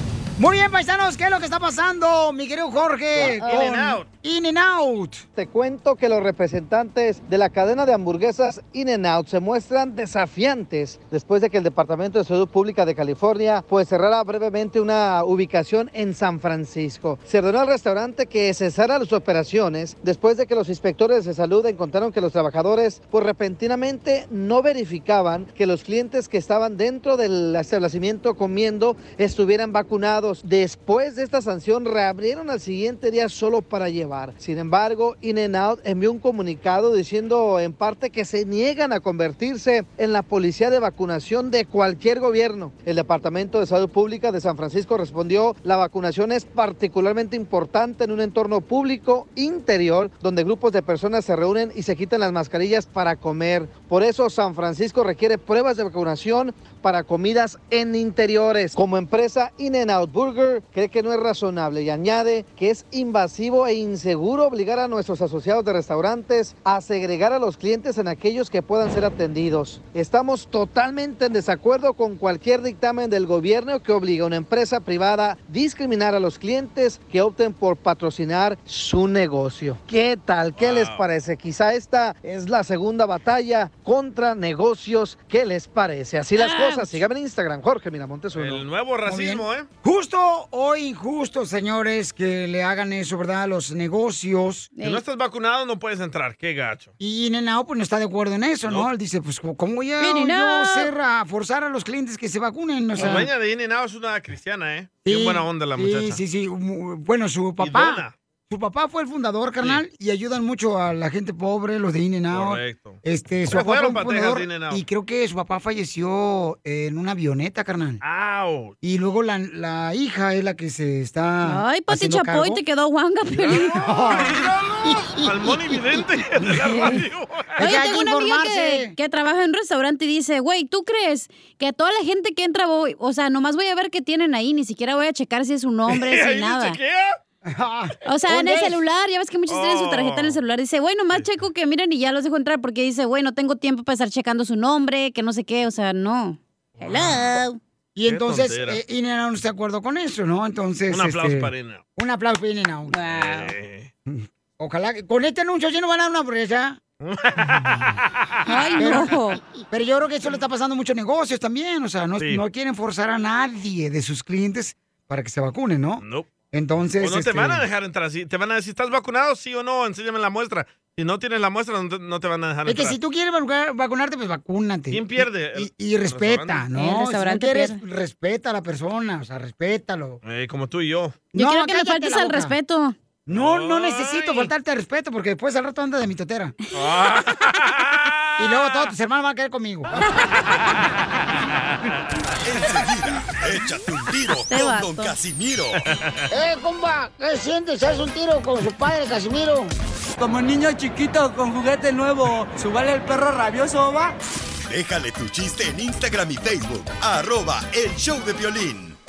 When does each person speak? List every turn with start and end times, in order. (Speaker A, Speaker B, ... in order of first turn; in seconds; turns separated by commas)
Speaker A: 0.4-5.2, Speaker B: 3.1-4.1, Speaker C: 5.4-88.6, Speaker B: 80.6-81.0, Speaker D: 86.3-86.9, Speaker B: 88.3-89.7, Speaker A: 89.0-94.7, Speaker D: 94.8-95.0, Speaker B: 94.8-96.9, Speaker A: 97.0-103.3, Speaker D: 100.0-100.9, Speaker B: 103.0-106.2, Speaker A: 105.0-118.0, Speaker B: 107.6-108.1, Speaker B: 112.3-114.8, Speaker B: 118.0-118.7, Speaker A: 118.8-122.6, Speaker D: 121.4-123.8, Speaker B: 123.3-127.6, Speaker A: 123.7-125.2, Speaker A: 127.6-128.9, Speaker D: 127.6-136.8, Speaker B: 135.9-137.2, Speaker A: 137.4-138.8, Speaker D: 138.1-147.6, Speaker B: 139.5-140.4, Speaker B: 146.8-147.4, Speaker A: 147.9-153.0, Speaker B: 148.1-148.8, Speaker B: 150.9-151.8, Speaker D: 152.9-153.5, Speaker B: 153.1-153.9, Speaker A: 154.1-156.8, Speaker B: 157.0-158.2, Speaker D: 158.4-159.4, Speaker A: 158.8-159.1, Speaker A: 159.7-167.6, Speaker B: 166.0-166.3, Speaker B: 167.0-173.0, Speaker A: 172.7-180.2, Speaker B: 174.9-176.7, Speaker D: 176.7-177.8, Speaker B: 180.2-181.2, Speaker A: 181.3-182.5, Speaker D: 181.3-182.9, Speaker A: 183.3-186.5, Speaker B: 183.3-184.5, Speaker B: 186.7-188.9, Speaker A: 188.4-190.0, Speaker E: 192.4-195.8, Speaker D: 194.5-195.1, Speaker B: 195.9-196.2, Speaker A: 196.3-199.7, Speaker F: 200.2-204.2, Speaker E: 204.7-209.0